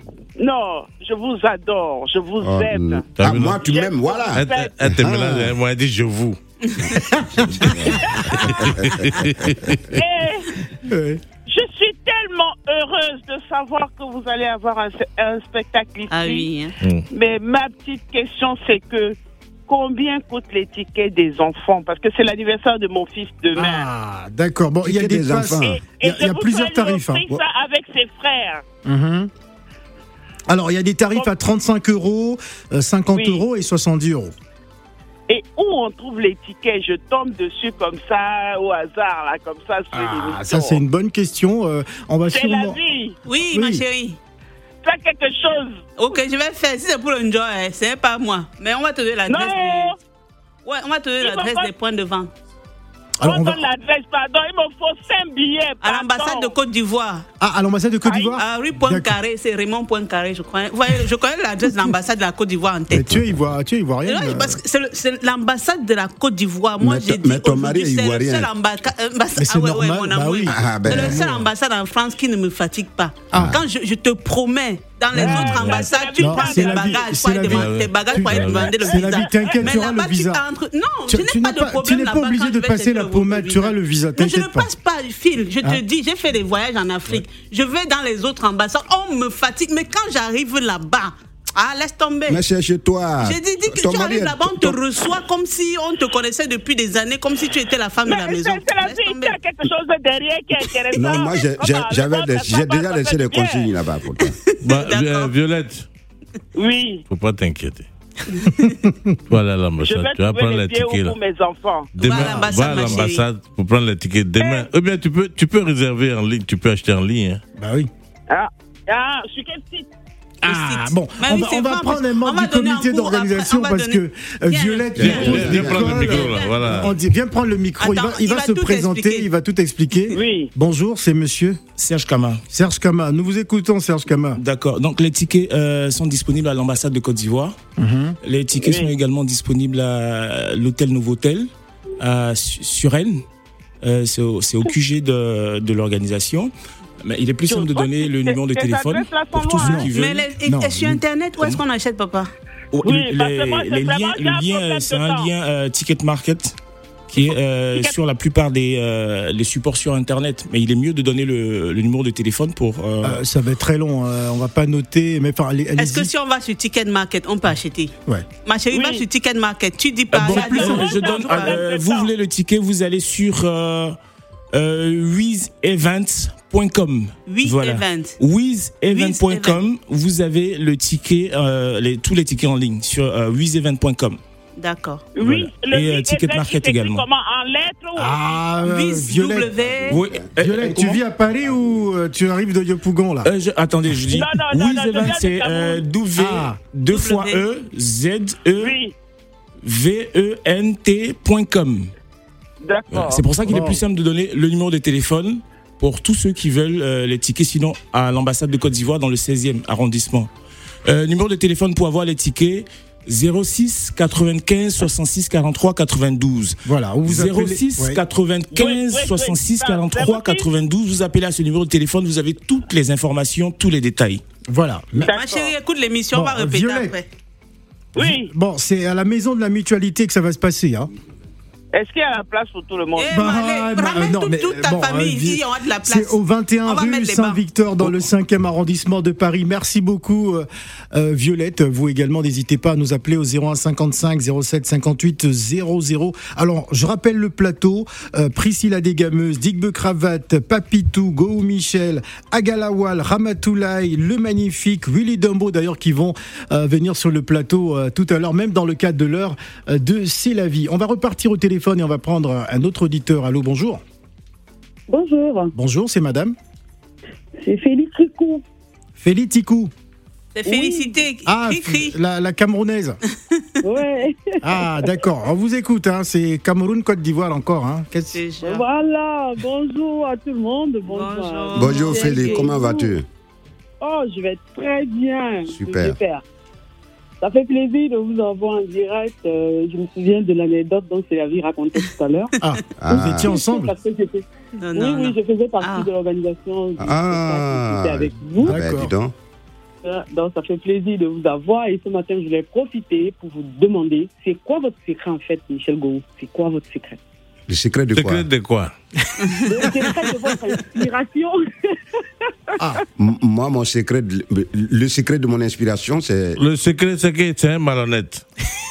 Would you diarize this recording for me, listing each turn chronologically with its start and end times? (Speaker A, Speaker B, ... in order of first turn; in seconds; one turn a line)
Speaker A: 0.4-4.8
Speaker B: 2.4-5.5
Speaker C: 3.2-3.6
Speaker C: 4.3-6.4
Speaker D: 7.2-8.2
Speaker B: 7.4-9.8
Speaker C: 8.3-9.8
Speaker A: 9.9-10.5
Speaker D: 10.8-11.2
Speaker A: 11.4-16.5
Speaker E: 16.1-16.7
Speaker A: 17.1-23.9
Speaker D: 23.5-27.2
Speaker B: 24.8-25.8
Speaker A: 25.6-28.6
Speaker D: 28.8-29.3
Speaker D: 30.5-34.3
Speaker A: 33.1-33.4
Speaker A: 35.3-40.8
Speaker D: 39.9-42.8
Speaker A: 42.3-43.2
Speaker E: 43.2-44.2
Speaker D: 43.5-43.8
Speaker A: 44.8-45.8
Speaker E: 46.0-49.9
Speaker A: 49.3-50.0
Speaker E: 50.6-52.3
Speaker A: 51.2-51.7
Speaker D: 53.2-53.6
Speaker A: 53.2-56.5
Speaker E: 55.8-57.2
Speaker D: 57.4-59.1
Speaker A: 58.0-58.4
Speaker E: 58.4-63.1
Speaker D: 62.9-64.6
Speaker E: 64.0-92.4
Speaker B: 66.8-68.5
Speaker D: 69.4-71.4
Speaker B: 70.5-71.3
Speaker D: 73.3-73.6
Speaker B: 73.3-73.6
Speaker D: 75.1-75.7
Speaker A: 75.2-77.1
Speaker C: 75.4-75.8
Speaker D: 76.2-80.4
Speaker C: 77.4-78.7
Speaker A: 78.7-79.5
Speaker D: 81.1-84.7
Speaker B: 92.3-94.8
Speaker E: 93.2-99.4
Speaker A: 98.1-103.7
Speaker B: 100.9-104.4
Speaker E: 104.5-105.3
Speaker C: 104.6-105.8
Speaker A: 106.5-107.0
Speaker C: 107.1-107.9
Speaker D: 108.6-109.2
Speaker C: 109.3-111.2
Speaker A: 109.8-113.1
Speaker C: 111.9-117.4
Speaker E: 112.0-113.2
Speaker A: 114.4-114.7
Speaker D: 117.6-117.9
Speaker A: 118.3-119.9
Speaker D: 120.4-131.6
Speaker E: 120.4-126.6
Speaker B: 125.0-126.2
Speaker C: 125.0-127.0
Speaker E: 127.8-129.3
Speaker A: 130.1-130.5
Speaker F: 131.8-132.4
Speaker D: 132.5-134.4
Speaker F: 134.4-137.6
Speaker D: 137.8-138.2
Speaker F: 138.2-143.2
Speaker A: 138.6-138.9
Speaker F: 143.8-150.3
Speaker A: 147.4-149.9
Speaker D: 149.6-149.9
Speaker E: 149.9-152.3
Speaker D: 150.4-151.0
Speaker F: 152.7-156.6
Speaker A: 152.8-155.3
Speaker F: 157.1-163.2
Speaker A: 157.2-157.9
Speaker D: 163.0-166.1
Speaker E: 165.8-167.9
Speaker E: 168.4-171.6
Speaker A: 168.7-169.0
Speaker F: 170.1-174.0
Speaker A: 170.2-172.1
Speaker F: 174.5-184.2
Speaker E: 177.3-178.2
Speaker E: 178.9-179.6
Speaker E: 184.6-185.1
Speaker A: 185.1-188.2
Speaker F: 185.2-187.0
Speaker D: 187.9-189.5
Speaker E: 188.6-190.0
Speaker B: 189.7-190.3
Speaker F: 189.9-191.0
Speaker D: 190.3-193.3
Speaker F: 193.2-198.8
Speaker A: 194.1-195.8
Speaker D: 196.2-196.6
Speaker E: 196.9-197.4
Speaker A: 198.6-198.9
Speaker F: 199.6-201.9
Speaker A: 202.6-203.3
Speaker F: 203.0-210.3
Speaker D: 203.4-203.8
Speaker F: 210.8-224.2
Speaker D: 216.6-218.0
Speaker A: 218.5-220.5
Speaker D: 224.5-225.1
Speaker A: 225.0-225.5
Speaker E: 225.0-227.1
Speaker D: 226.1-226.9
Speaker A: 227.9-228.3
Speaker D: 227.9-230.9
Speaker A: 231.7-233.1
Speaker E: 232.9-237.4
Speaker D: 233.1-263.8
Speaker G: 264.9-265.5
Speaker D: 265.5-266.4
Speaker G: 267.4-268.4
Speaker D: 269.0-269.7
Speaker E: 270.3-271.9
Speaker G: 270.4-271.0
Speaker D: 271.2-273.0
Speaker G: 273.6-274.7
Speaker D: 274.4-278.2
Speaker E: 278.1-278.6
Speaker G: 278.4-282.9
Speaker E: 280.9-282.5
Speaker B: 281.5-283.1
Speaker G: 283.8-286.2
Speaker B: 285.5-286.0
Speaker G: 287.2-292.3
Speaker D: 292.4-293.7
Speaker B: 292.8-293.3
Speaker G: 292.9-298.6
Speaker E: 294.6-295.9
Speaker B: 296.8-299.1
Speaker D: 298.4-298.9
Speaker G: 299.8-307.0
Speaker B: 307.5-308.2
Speaker C: 307.9-308.7
Speaker G: 309.4-311.4
Speaker D: 312.6-312.8
Speaker B: 313.0-316.4
Speaker C: 316.4-318.2